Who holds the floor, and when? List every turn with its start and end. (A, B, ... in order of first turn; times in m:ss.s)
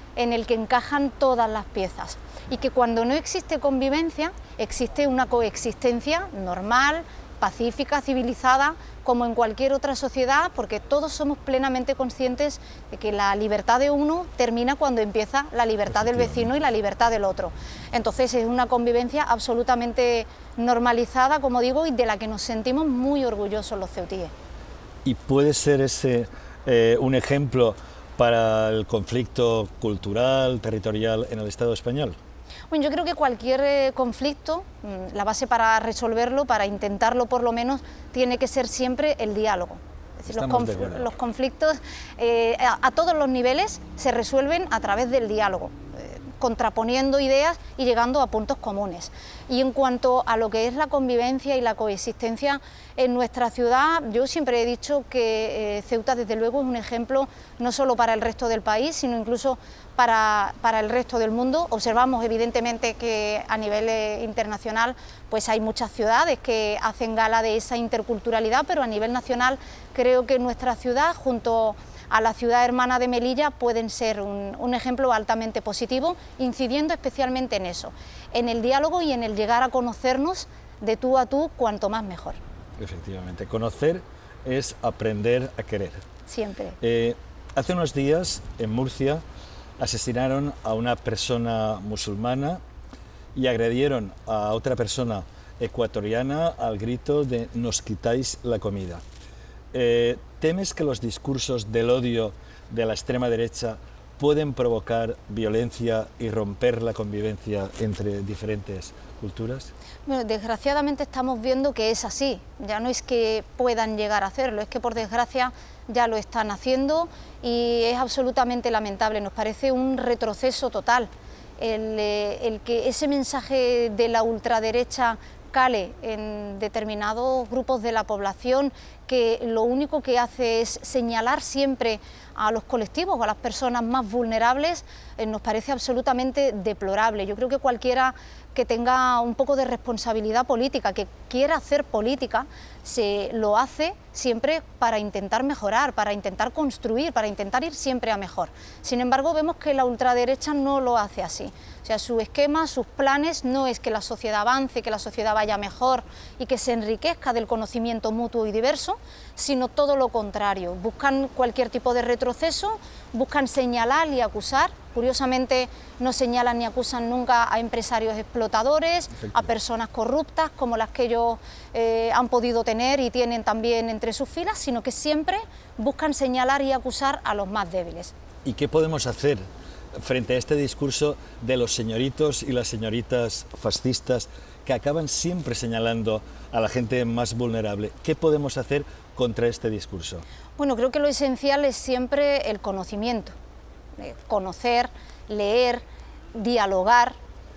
0:00.2-0:24.3 A
0:25.0-0:32.2 B
0:32.7-1:22.4 A
0:40.3-0:41.1 B
1:22.8-1:26.0 B
1:26.3-1:26.8 A
1:26.8-1:29.2 B
1:29.8-1:32.6 B
1:33.3-1:39.0 B
1:39.7-1:49.7 B
1:50.0-2:58.1 A
2:58.4-3:10.2 B
3:10.6-3:13.3 A
3:14.0-3:17.2 A